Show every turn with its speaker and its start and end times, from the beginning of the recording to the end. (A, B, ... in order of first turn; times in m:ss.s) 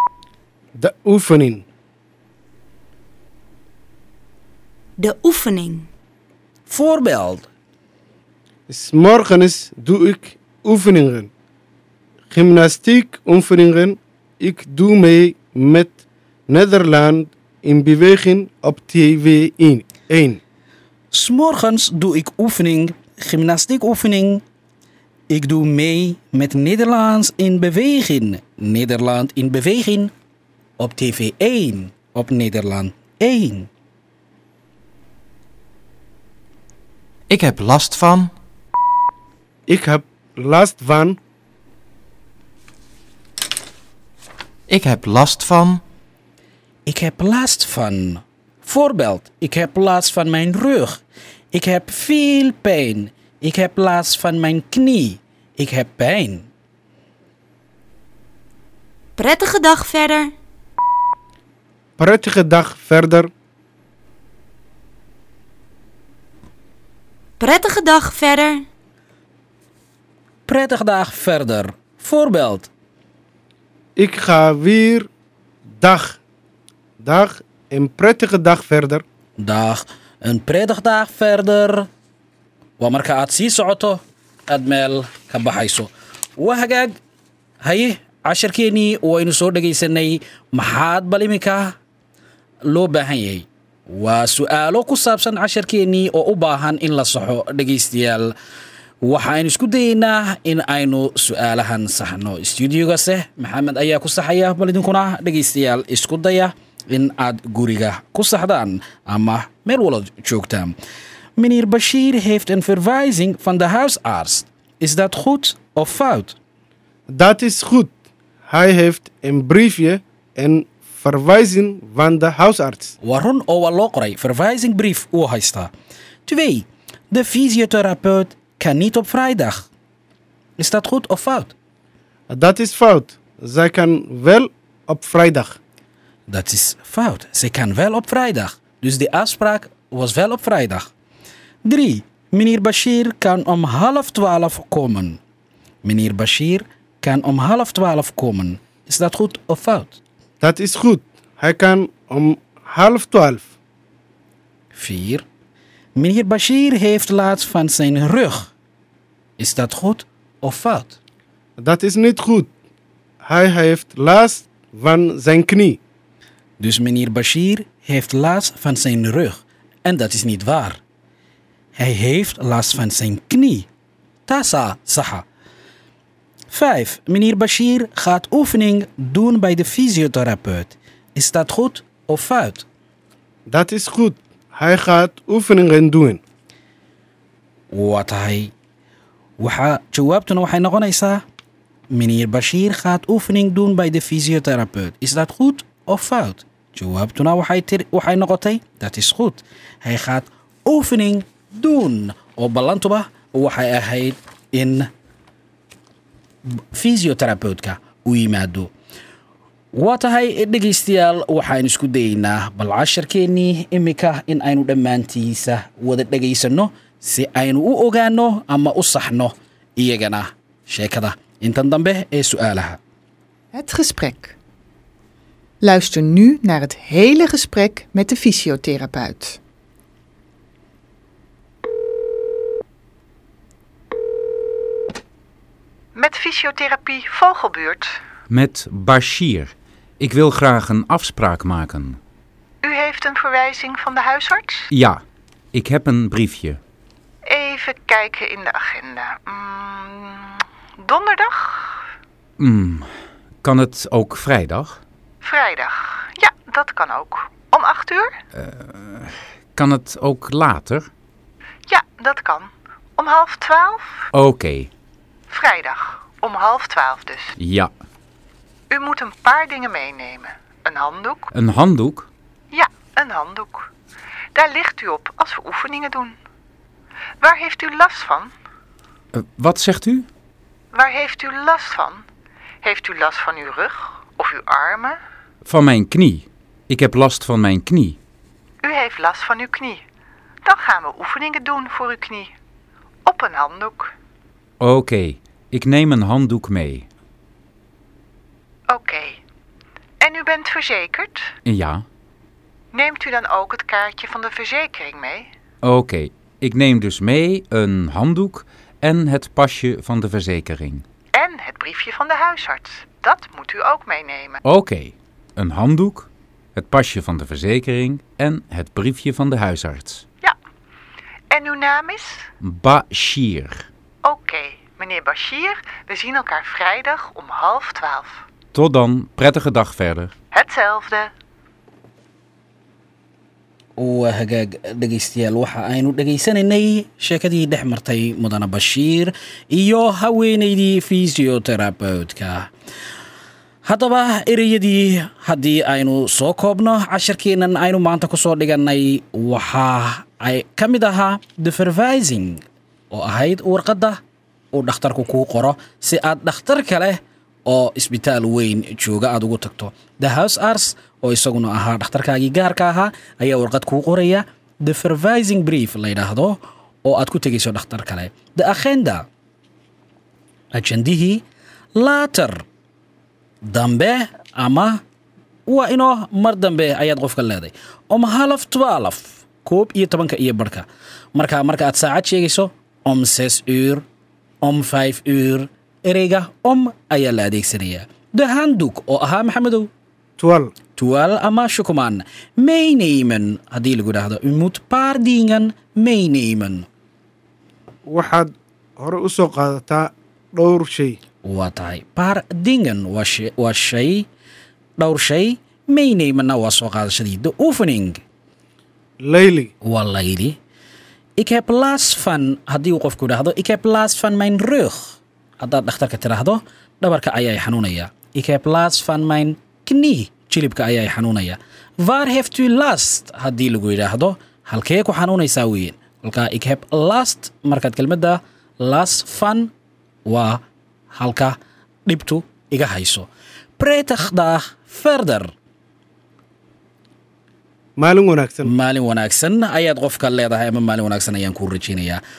0:00.8-0:01.6 A
0:05.0-0:05.9 B
0:06.7-0:07.5 C
0:08.7-0:11.3 A
0:12.3-0:20.4 A
0:21.1-0:24.4 C
0:25.3-0:30.1 C
0:30.8-0:33.7 C
0:37.3-0:38.3 D
0:39.7-0:41.2 A
0:44.7-0:45.8 D
0:46.8-0:51.0 C
0:51.5-0:56.5 C
0:59.2-1:00.3 B
1:02.0-1:03.3 A
1:07.4-1:08.6 B
1:10.5-1:12.7 C
1:14.0-1:15.1 A
1:15.8-1:16.2 A
1:17.0-1:19.0 A
1:19.4-1:21.9 C
1:22.8-1:26.9 C
1:27.6-1:31.7 C
1:32.6-1:38.3 C
1:39.0-1:50.7 C
1:51.4-1:56.3 C
1:57.1-1:57.9 A
1:58.5-2:02.9 A
2:03.0-2:05.7 C
2:06.3-2:09.7 C
2:10.6-2:11.5 C
2:12.3-2:15.6 A
2:16.3-2:20.9 C
2:21.6-2:25.2 C
2:25.8-2:30.0 C
2:30.4-2:33.5 A
2:34.7-2:35.2 C
2:36.0-2:38.5 C
2:39.4-2:41.0 C
2:41.6-2:42.5 A
2:43.2-2:45.8 A
2:46.6-2:50.8 C
2:51.8-2:53.7 C
2:54.3-2:55.2 C
2:56.5-3:02.6 C
3:03.5-3:06.2 A
3:07.7-3:08.5 C
3:09.4-3:11.2 C
3:11.9-3:24.9 C
3:26.7-3:28.7 C
3:29.7-3:42.8 C
3:43.5-3:44.3 E
3:45.6-3:49.4 E
3:55.9-3:58.0 E
3:58.3-4:02.0 F
4:02.6-4:04.7 E
4:04.7-4:05.0 F
4:05.5-4:06.6 F
4:07.2-4:11.8 E
4:12.4-4:12.9 F
4:13.4-4:14.8 F
4:15.2-4:18.2 E
4:18.4-4:20.9 F
4:21.7-4:24.0 E
4:24.1-4:24.7 F
4:25.3-4:27.4 E
4:27.4-4:27.7 F
4:28.7-4:31.3 E
4:31.3-4:32.1 F
4:32.5-4:33.7 E
4:34.3-4:36.2 E
4:37.2-4:38.3 E
4:39.1-4:40.1 F
4:40.7-4:42.0 E
4:42.6-4:45.0 E
4:45.4-4:48.0 F
4:48.6-4:49.8 E
4:50.4-4:52.3 E
4:53.0-4:53.9 E
4:54.6-4:56.8 F
4:58.7-4:59.2 E
5:00.0-5:01.3 E
5:01.4-5:01.8 F
5:02.7-5:05.3 E
5:05.6-5:10.8 F
5:11.1-5:14.4 E
5:14.4-5:20.0 F
5:21.3-5:22.3 E
5:22.4-5:23.7 F
5:24.0-5:28.2 E
5:28.5-5:30.1 F
5:30.3-5:31.1 E
5:33.8-5:42.5 C
5:43.6-5:52.4 C
5:52.9-5:54.0 C
5:54.5-6:09.1 C
6:10.5-6:11.2 C
6:11.8-6:12.4 C
6:13.4-6:14.8 C
6:15.5-6:23.8 C
6:24.4-6:29.7 C
6:30.2-6:30.5 A
6:30.8-6:36.7 C
6:37.8-6:41.0 A
6:41.2-6:44.0 C
6:44.8-6:48.0 C
6:49.0-6:49.5 A
6:49.6-6:50.4 C
6:51.2-7:09.5 C
7:10.0-7:13.1 C
7:13.6-7:15.3 C
7:17.8-7:18.5 A
7:18.4-7:22.0 C